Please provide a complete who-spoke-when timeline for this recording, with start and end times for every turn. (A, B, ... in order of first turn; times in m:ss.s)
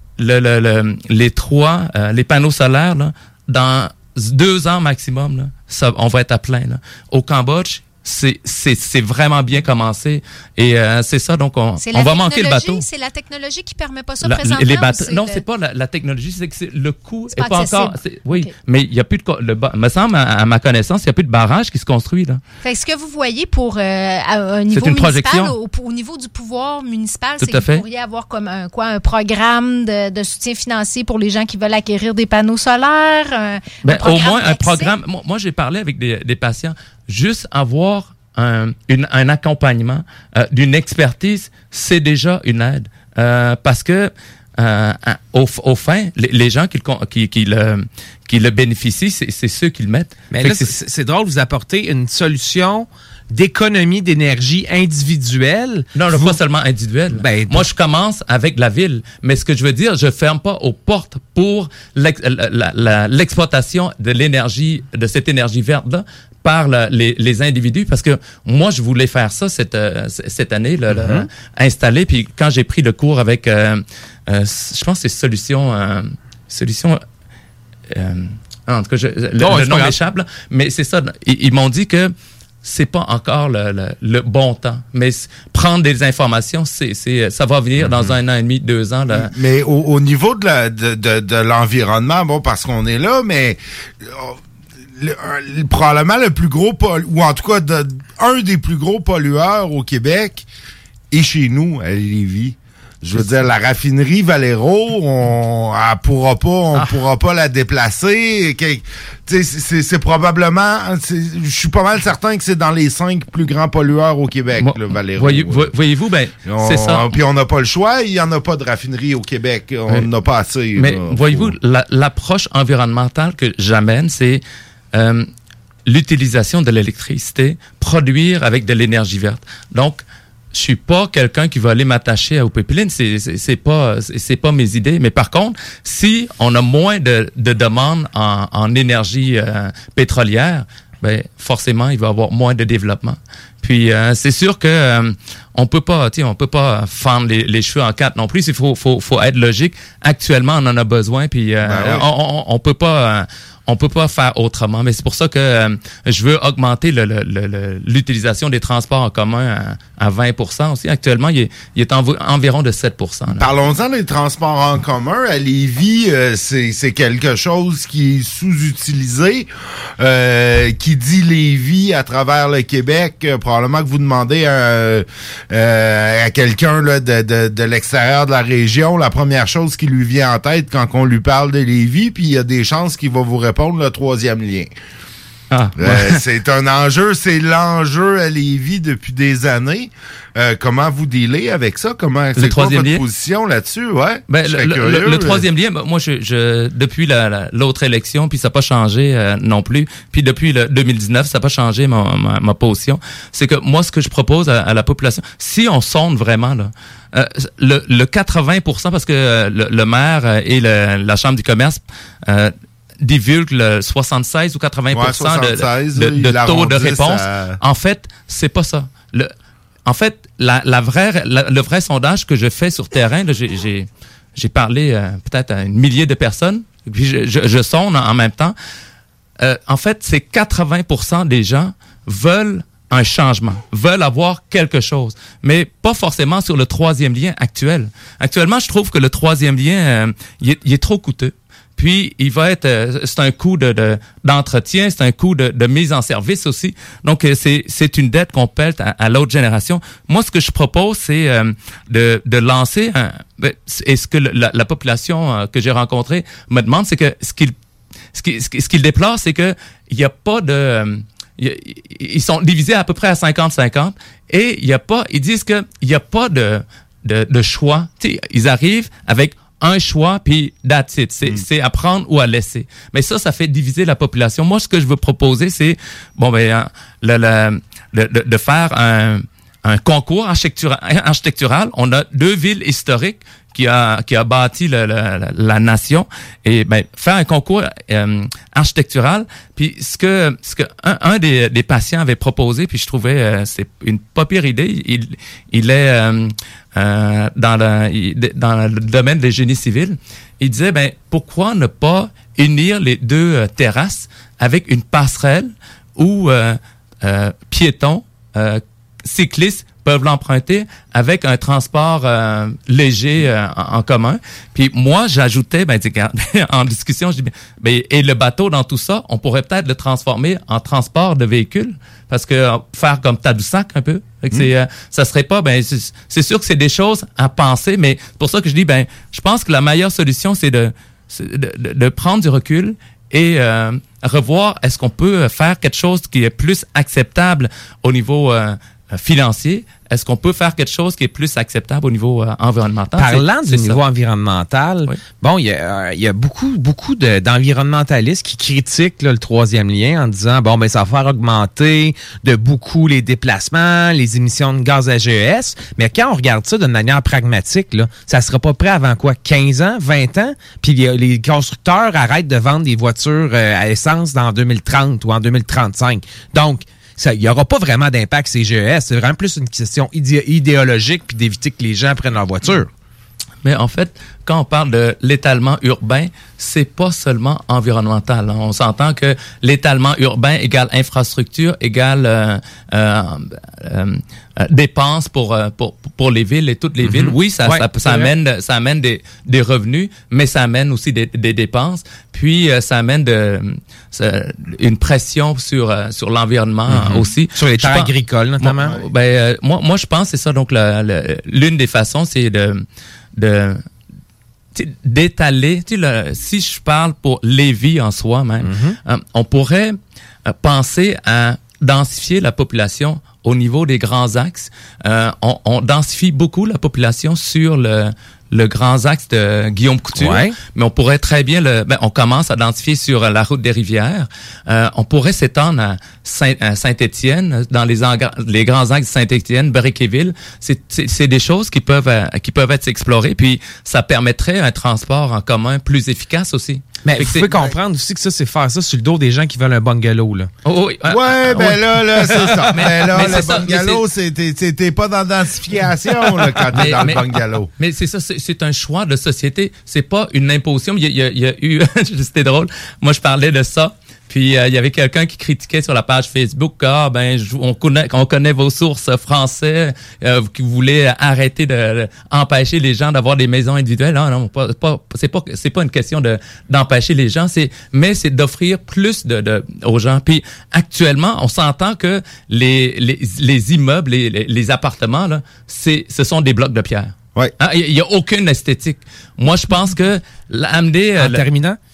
0:00.2-0:12.8 A
0:11.8-0:15.4 B
0:14.2-0:22.4 A
0:17.3-0:18.5 B
0:22.6-0:34.9 B
0:24.7-0:25.6 A
0:27.4-0:27.8 A
0:33.8-0:50.7 A
0:50.3-0:56.4 C
0:56.0-1:17.0 A
0:57.1-0:57.7 C
1:10.9-1:11.3 C
1:17.9-1:29.3 A
1:19.4-1:20.1 C
1:27.8-1:28.1 D
1:29.1-1:34.4 D
1:35.0-1:40.5 D
1:41.1-1:55.7 D
1:46.8-1:47.0 A
1:54.6-1:57.2 A
1:56.4-2:01.6 D
2:00.8-2:05.3 A
2:05.9-2:43.5 A
2:31.6-2:32.1 D
2:43.3-2:49.5 D
2:50.0-3:04.7 D
3:05.5-3:06.2 A
3:05.8-3:15.4 D
3:12.4-3:13.0 A
3:14.3-3:39.3 A
3:34.9-3:37.6 D
3:39.9-3:48.6 A
3:49.4-4:17.6 A
4:18.1-5:43.8 A
5:42.9-6:12.7 C
6:13.4-6:42.7 A
6:26.8-6:28.1 C
6:36.7-6:38.8 C
6:43.2-6:43.6 A
6:44.6-6:49.8 A
6:48.4-6:48.8 C
6:50.3-7:17.4 A
7:00.0-7:00.4 C
7:16.8-7:20.3 C
7:20.5-7:23.8 A
7:20.9-7:27.5 D
7:26.0-8:01.2 A
8:01.0-8:01.6 C